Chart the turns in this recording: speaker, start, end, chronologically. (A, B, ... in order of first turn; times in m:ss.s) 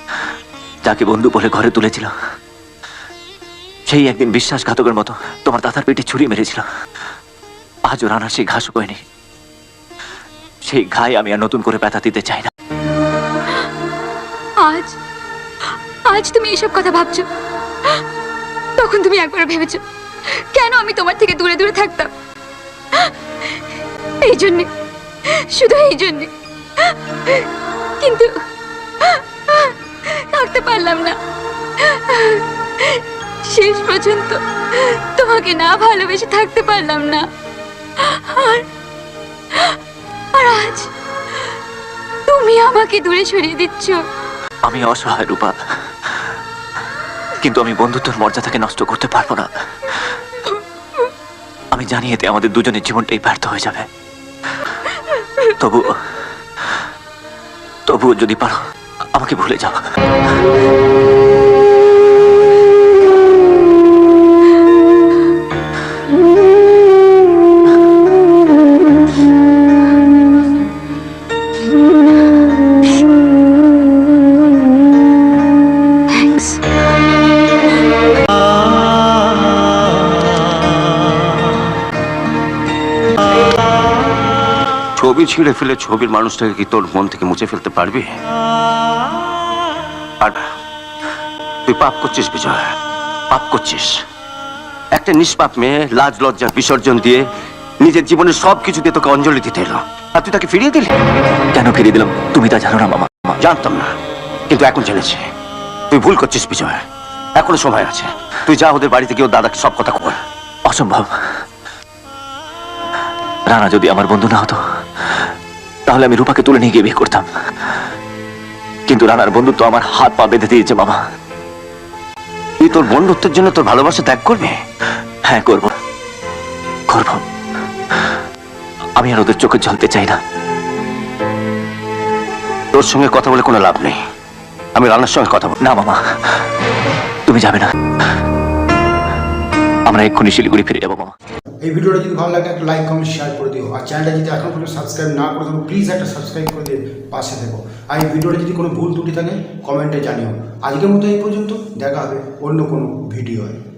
0:00.8-0:02.1 A
0:03.9-0:06.6 A
0:07.9-0:09.0 A
0:10.6-0:12.5 A
0:14.6-0:15.0 B
0:16.1-0:17.2 B
0:18.8-0:22.1 B
0:24.2-0:24.7 B
0:25.3-0:26.3 B
0:26.8-0:27.4 B
0:28.0-0:28.3 B
0:29.0-0:31.2 B
0:31.8-0:37.2 B
0:38.0-0:38.6 B
0:40.3-0:40.9 B
0:42.3-0:44.0 B
0:44.6-0:45.5 A
0:47.4-0:49.5 A
0:51.7-0:53.9 A
0:55.1-0:55.5 B
0:55.6-0:56.0 A
0:57.9-0:58.6 A
0:59.1-0:59.8 A
1:16.1-1:16.6 B
1:25.0-1:28.2 C
1:31.7-1:32.7 C
1:33.3-1:33.9 C
1:34.9-1:37.2 C
1:37.8-1:40.9 C
1:41.5-1:43.4 A
1:43.4-1:43.9 C
1:44.5-1:45.2 C
1:45.9-1:46.8 C
1:47.3-1:50.2 C
1:50.6-1:51.1 A
1:53.5-1:55.2 A
1:55.9-1:57.2 A
1:58.9-2:01.0 A
2:02.6-2:04.6 C
2:05.3-2:05.7 A
2:06.9-2:07.2 A
2:09.0-2:10.2 A
2:12.7-2:14.0 C
2:14.8-2:15.5 C
2:15.6-2:16.0 A
2:17.3-2:17.7 A
2:19.9-2:21.1 A
2:21.6-2:33.6 D